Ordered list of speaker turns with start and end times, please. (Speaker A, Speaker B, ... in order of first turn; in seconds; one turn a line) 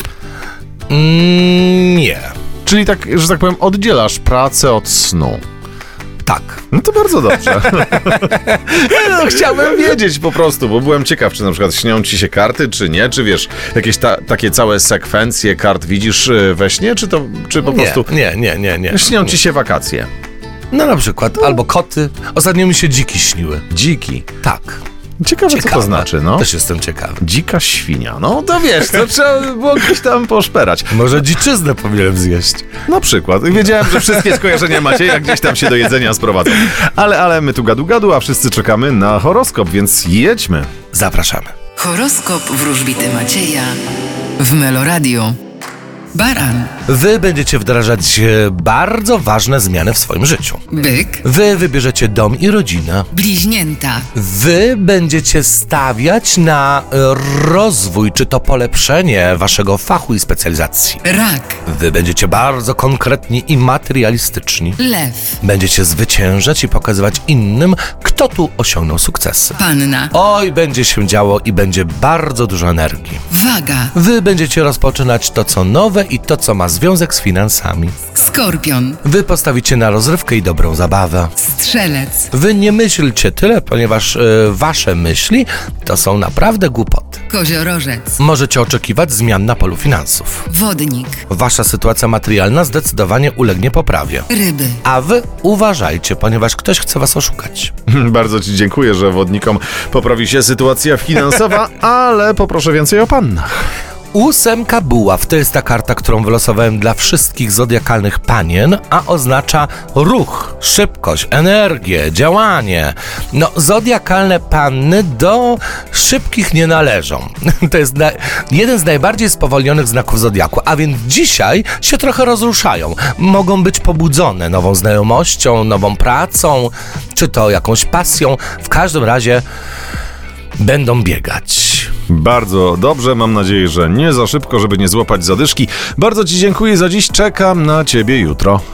Speaker A: 0.9-2.4
Speaker B: 2.6-5.4
Speaker A: 6.2-6.6
Speaker B: 6.7-18.1
Speaker A: 7.7-10.0
Speaker A: 17.7-19.4
Speaker B: 18.9-20.1
Speaker A: 20.7-23.7
Speaker B: 23.7-24.3
Speaker A: 24.4-24.8
Speaker B: 25.2-26.5
Speaker A: 25.5-27.2
Speaker B: 27.2-31.1
Speaker A: 30.9-32.7
Speaker B: 32.9-40.7
Speaker A: 33.8-34.3
Speaker A: 40.9-41.5
Speaker C: 41.8-43.8
Speaker C: 44.4-45.4
Speaker C: 46.1-46.8
Speaker A: 46.8-53.1
Speaker C: 50.7-51.2
Speaker C: 53.1-54.1
Speaker A: 54.1-61.0
Speaker C: 61.0-61.6
Speaker A: 61.6-64.8
Speaker C: 64.8-65.4
Speaker A: 65.4-73.2
Speaker C: 69.6-70.1
Speaker C: 73.3-73.9
Speaker A: 73.9-78.0
Speaker C: 78.1-79.0
Speaker A: 79.0-81.3
Speaker C: 81.4-82.3
Speaker A: 82.3-87.2
Speaker C: 87.3-88.2
Speaker A: 88.2-90.5
Speaker C: 90.5-91.2
Speaker A: 91.3-94.3
Speaker C: 94.3-94.8
Speaker A: 94.8-97.7
Speaker B: 97.9-103.6
Speaker A: 104.1-129.4
Speaker A: 130.6-131.9
Speaker B: 132.1-138.6